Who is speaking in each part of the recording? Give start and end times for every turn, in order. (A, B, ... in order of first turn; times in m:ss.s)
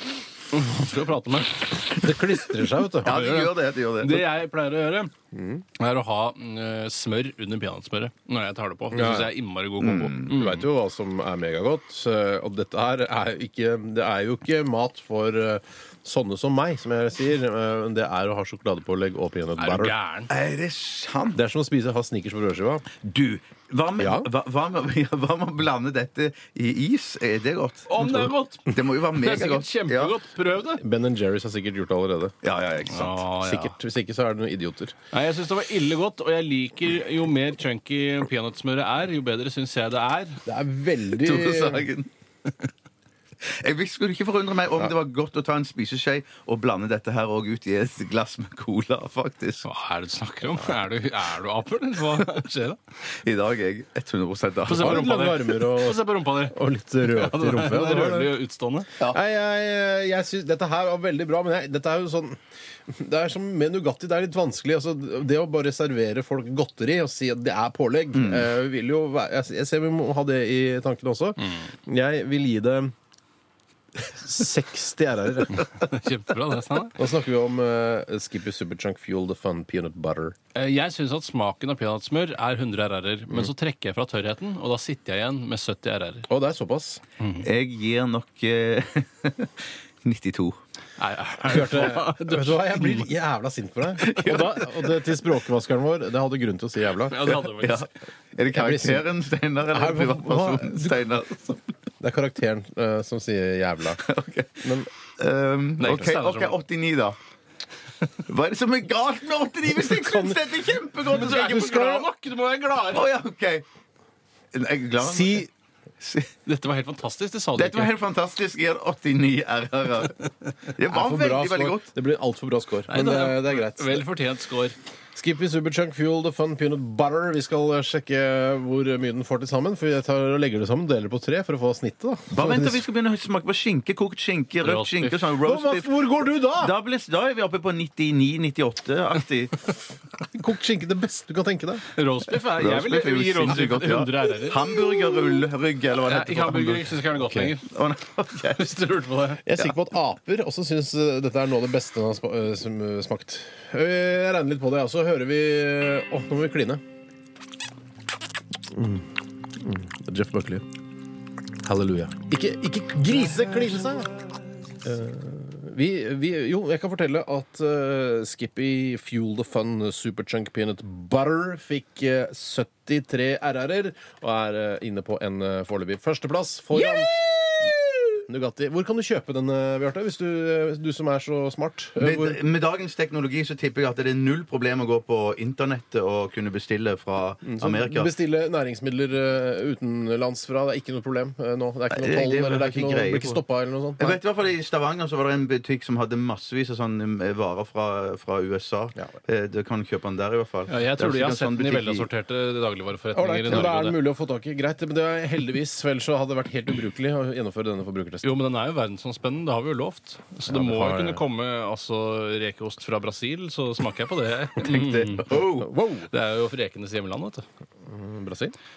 0:00.5-0:02.2 A
0:02.0-0:03.2 B
0:02.8-0:05.1 A
0:03.0-0:04.3 C
0:05.3-0:05.6 B
0:05.8-0:10.6 A
0:08.9-0:09.4 B
0:09.8-0:10.3 C
0:10.3-0:20.0 B
0:19.6-0:20.3 A
0:20.3-0:21.4 C
0:21.3-0:22.8 B
0:23.0-0:28.1 C
0:24.0-0:24.3 B
0:27.9-0:30.8 A
0:28.0-0:28.3 B
0:28.7-0:30.2 C
0:30.8-0:32.3 B
0:32.4-0:33.2 C
0:32.9-0:33.7 A
0:33.4-0:34.9 B
0:35.1-0:40.4 A
0:40.4-0:41.9 B
0:41.1-0:42.1 C
0:43.4-0:49.6 C
0:49.6-0:52.8 A
0:53.2-0:55.0 C
0:54.6-0:58.9 A
0:54.7-0:58.3 B
0:59.1-1:02.4 B
1:02.9-1:12.9 B
1:08.1-1:08.5 C
1:14.0-1:15.7 B
1:15.6-1:17.0 A
1:16.9-1:20.4 B
1:20.5-1:26.3 A
1:26.3-1:27.0 B
1:27.2-1:27.5 A
1:27.4-1:30.6 C
1:31.0-1:33.1 A
1:31.4-1:37.2 B
1:34.0-1:34.6 C
1:37.1-1:37.9 A
1:37.2-1:41.7 C
1:38.5-1:39.1 B
1:39.7-1:41.0 B
1:42.0-1:44.0 B
1:44.0-1:47.2 C
1:44.6-1:44.9 B
1:45.8-1:46.6 A
1:48.2-1:52.1 C
1:49.8-1:50.4 B
1:51.0-1:53.1 A
1:52.9-1:53.6 C
1:54.5-1:55.5 C
1:55.0-1:55.5 B
1:56.0-1:56.3 C
1:56.4-1:57.9 A
1:57.5-2:01.9 C
2:00.8-2:04.1 B
2:02.9-2:04.8 A
2:05.1-2:12.8 B
2:12.3-2:19.7 C
2:14.6-2:15.3 A
2:15.4-2:16.7 B
2:20.2-2:21.8 B
2:21.9-2:24.7 A
2:22.6-2:27.0 C
2:24.8-2:25.2 B
2:26.0-2:27.7 A
2:27.2-2:27.5 B
2:27.7-2:28.7 C
2:28.5-2:29.4 A
2:29.4-2:36.8 B
2:38.7-2:40.6 B
2:41.6-2:44.1 B
2:44.8-2:57.7 B
2:56.7-2:58.1 C
2:58.3-3:02.4 B
3:02.0-3:08.1 C
3:07.4-3:14.2 B
3:11.9-3:13.4 C
3:14.0-3:22.1 C
3:20.7-3:24.0 A
3:23.1-3:28.4 B
3:28.2-3:35.5 A
3:30.5-3:31.2 B
3:34.6-3:35.7 C
3:35.3-3:36.1 B
3:36.0-3:37.4 A
3:37.8-3:38.5 B